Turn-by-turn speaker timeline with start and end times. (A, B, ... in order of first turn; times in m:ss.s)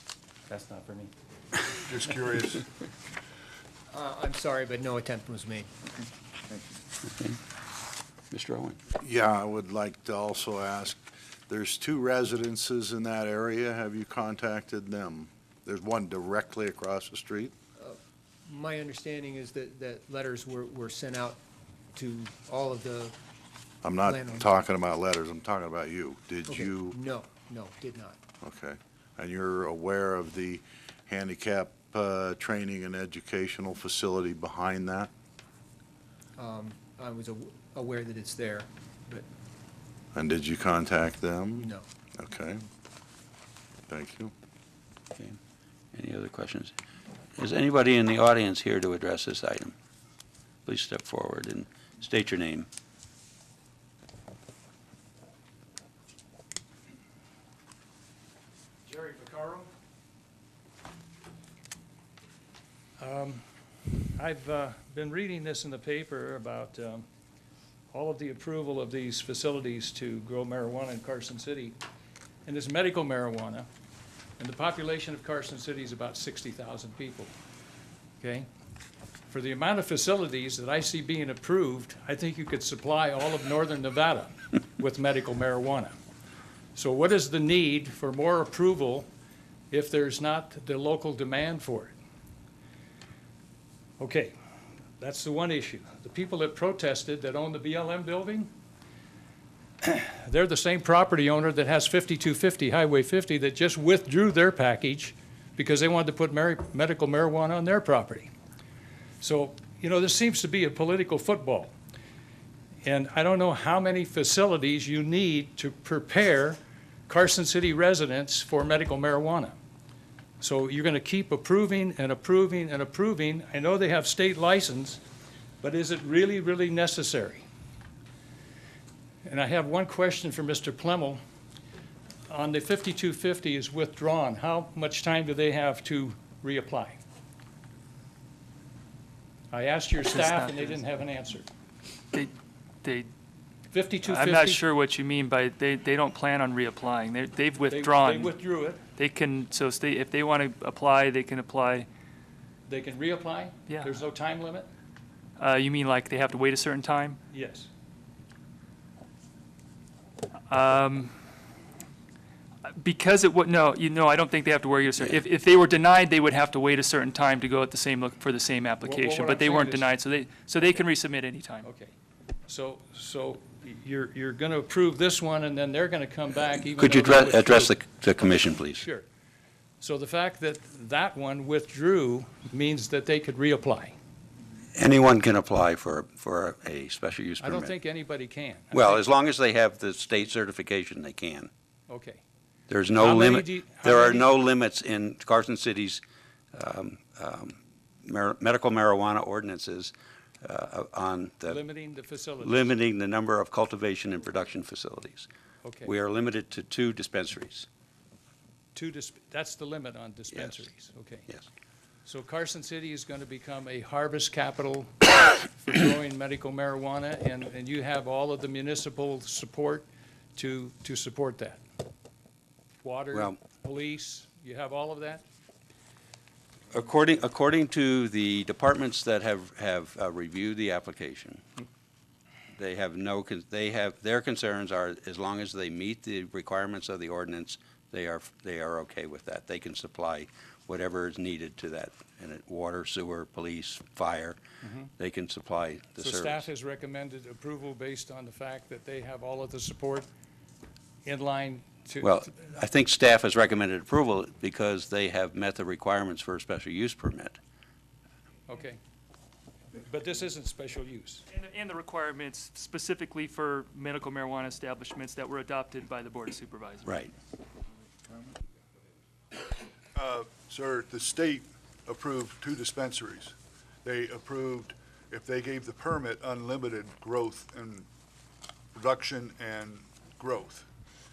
0:00.5-0:01.1 A
0:01.7-0:02.6 B
0:03.9-0:06.0 C
0:07.0-0:07.4 D
0:08.3-0:08.8 D
0:08.9-0:17.5 E
0:17.8-0:21.4 C
0:21.9-0:23.2 C
0:23.8-0:27.0 E
0:24.0-0:24.5 C
0:26.5-0:28.2 C
0:28.4-0:35.1 E
0:36.4-0:39.2 C
0:40.1-0:42.6 E
0:41.6-0:41.8 C
0:43.9-0:44.3 E
0:45.9-0:46.7 D
0:47.4-0:49.8 D
0:50.6-0:52.7 D
0:58.8-0:59.7 A
1:03.0-1:03.4 A
1:04.1-1:07.0 A
1:07.9-1:11.8 A
1:12.4-1:13.7 A
1:14.4-1:17.3 A
1:18.2-1:18.5 A
1:19.3-1:25.9 A
1:26.7-1:29.1 A
1:29.7-1:31.9 A
1:34.0-1:34.3 A
1:35.0-1:38.5 A
1:39.8-1:48.3 A
1:49.2-1:51.7 A
1:52.8-1:59.6 A
2:00.4-2:05.0 A
2:05.6-2:07.4 A
2:09.2-2:11.2 A
2:12.3-2:17.0 A
2:19.5-2:21.5 A
2:20.0-2:20.8 F
2:22.8-2:23.1 F
2:23.7-2:24.6 A
2:24.0-2:28.4 F
2:27.7-2:28.8 A
2:29.0-2:31.9 F
2:32.7-2:34.7 A
2:33.7-2:33.9 F
2:35.4-2:37.2 F
2:37.3-2:37.7 A
2:40.5-2:41.1 F
2:42.7-2:51.7 F
2:48.8-2:49.9 A
2:51.6-2:51.9 A
2:52.5-2:57.8 A
2:56.8-2:58.8 D
2:58.7-2:59.1 A
2:59.8-3:04.0 A
3:04.8-3:07.7 D
3:07.4-3:09.0 A
3:08.7-3:11.5 D
3:11.9-3:12.2 A
3:12.7-3:16.0 D
3:13.0-3:14.3 A
3:16.5-3:21.6 D
3:21.4-3:22.7 A
3:22.4-3:25.3 D
3:25.6-3:25.9 A
3:25.8-3:27.7 D
3:28.7-3:31.3 A
3:32.0-3:41.6 A
3:42.8-3:45.2 A
3:46.7-3:51.4 D
3:52.6-4:04.4 D
4:04.6-4:04.9 A
4:05.0-4:06.5 D
4:06.0-4:10.1 A
4:11.0-4:12.3 A
4:12.0-4:17.4 D
4:18.5-4:18.8 A
4:19.8-4:21.2 A
4:21.3-4:27.0 F
4:26.8-4:27.1 D
4:29.9-4:37.9 B
4:38.7-4:40.7 B